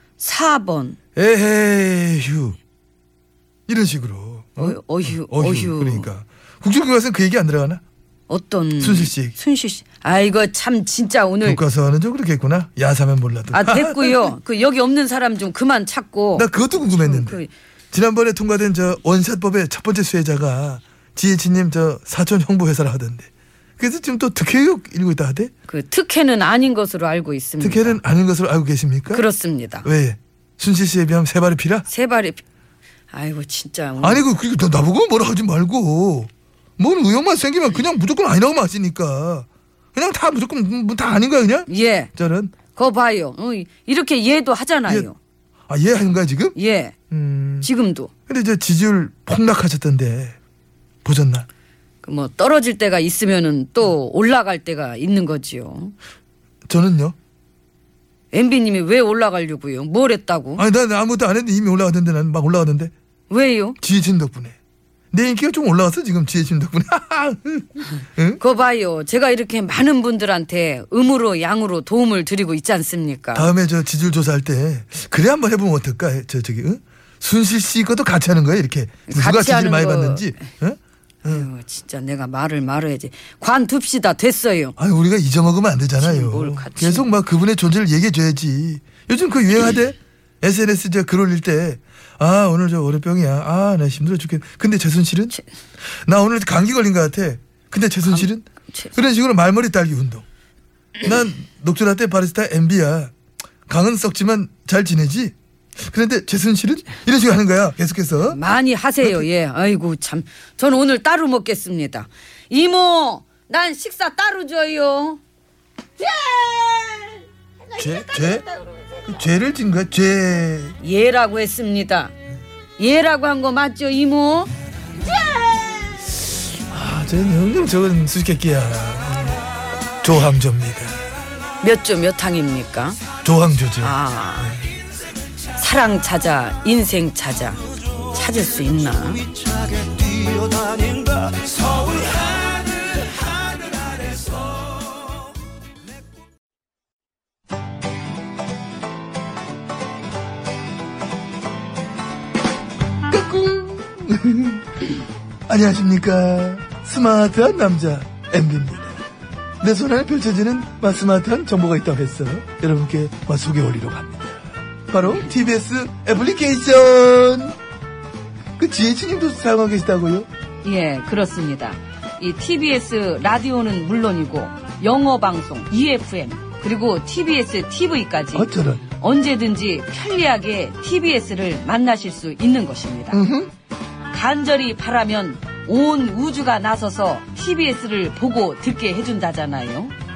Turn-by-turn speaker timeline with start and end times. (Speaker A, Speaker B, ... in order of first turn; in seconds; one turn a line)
Speaker A: 0.2-1.0
Speaker B: 1.1-2.6
Speaker B: 3.7-7.8
Speaker A: 4.6-6.1
Speaker A: 8.3-11.6
Speaker B: 8.8-9.3
Speaker B: 11.4-14.3
Speaker A: 13.5-17.5
Speaker B: 16.3-25.5
Speaker A: 25.7-28.0
Speaker B: 27.6-29.2
Speaker A: 29.1-29.9
Speaker B: 29.8-31.9
Speaker A: 31.9-32.4
Speaker A: 33.1-34.2
Speaker B: 34.0-42.5
Speaker A: 41.7-42.1
Speaker A: 42.7-45.1
Speaker B: 45.7-46.5
Speaker A: 46.5-46.9
Speaker B: 47.1-47.7
Speaker A: 47.6-48.1
Speaker B: 48.3-50.4
Speaker B: 51.0-51.5
Speaker A: 52.0-55.9
Speaker B: 56.7-57.1
Speaker A: 58.3-60.6
Speaker B: 60.6-62.9
Speaker A: 63.3-63.8
Speaker B: 63.8-64.5
Speaker B: 65.1-68.4
Speaker A: 68.4-73.5
Speaker B: 73.3-81.5
Speaker A: 79.1-80.5
Speaker A: 81.2-84.7
Speaker B: 84.8-95.3
Speaker A: 86.0-87.1
Speaker B: 95.9-100.2
Speaker A: 98.0-99.0
Speaker B: 101.0-103.1
Speaker B: 103.7-108.4
Speaker A: 108.3-115.2
Speaker B: 109.0-109.3
Speaker A: 116.0-119.2
Speaker B: 117.8-118.4
Speaker B: 119.0-120.8
Speaker A: 120.8-122.1
Speaker A: 122.8-126.1
Speaker B: 126.7-129.4
Speaker B: 130.0-131.0
Speaker A: 131.6-133.0
Speaker B: 133.2-134.6
Speaker A: 133.8-134.6
Speaker A: 135.5-139.2
Speaker B: 153.1-154.6
Speaker B: 155.5-158.9
Speaker B: 159.6-167.6
Speaker B: 168.6-170.3
Speaker A: 170.6-183.2
Speaker B: 178.3-178.8
Speaker B: 183.1-183.5
Speaker A: 184.1-189.9